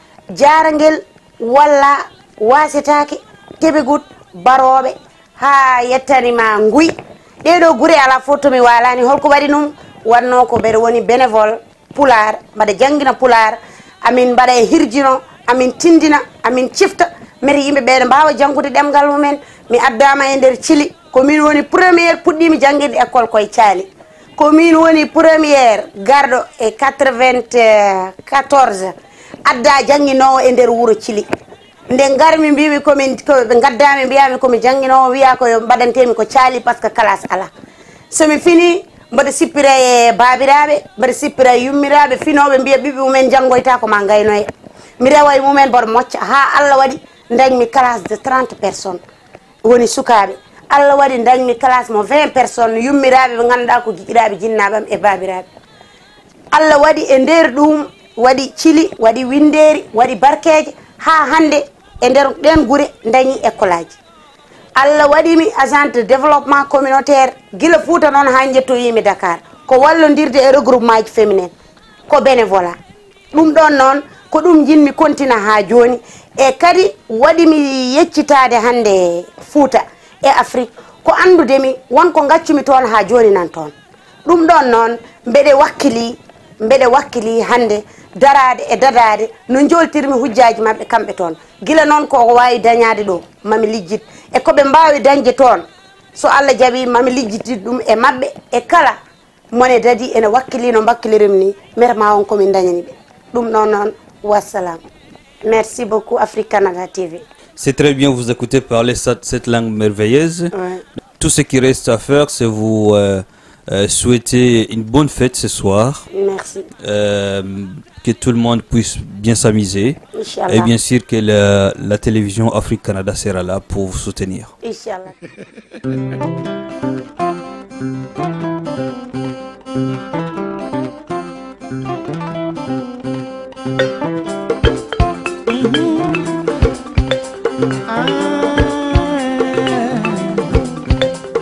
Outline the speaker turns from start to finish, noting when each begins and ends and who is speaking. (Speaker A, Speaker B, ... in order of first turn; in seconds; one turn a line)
Speaker A: 0.3-28.9
Speaker A: 29.4-31.2
Speaker A: 31.9-37.5
Speaker A: 38.1-44.5
Speaker A: 45.0-49.0
Speaker A: 49.6-55.5
Speaker A: 56.5-63.9
Speaker A: 64.8-71.5
Speaker A: 72.1-72.8
Speaker A: 73.3-83.7
Speaker A: 84.2-95.6
Speaker A: 96.2-99.0
Speaker A: 99.5-104.8
Speaker A: 105.4-107.2
Speaker B: 107.6-110.5
Speaker A: 110.5-110.8
Speaker B: 111.2-116.1
Speaker A: 116.1-116.7
Speaker B: 116.8-120.0
Speaker A: 120.1-120.7
Speaker B: 120.5-124.5
Speaker A: 124.6-125.1
Speaker C: 135.5-136.3
Speaker C: 137.9-140.4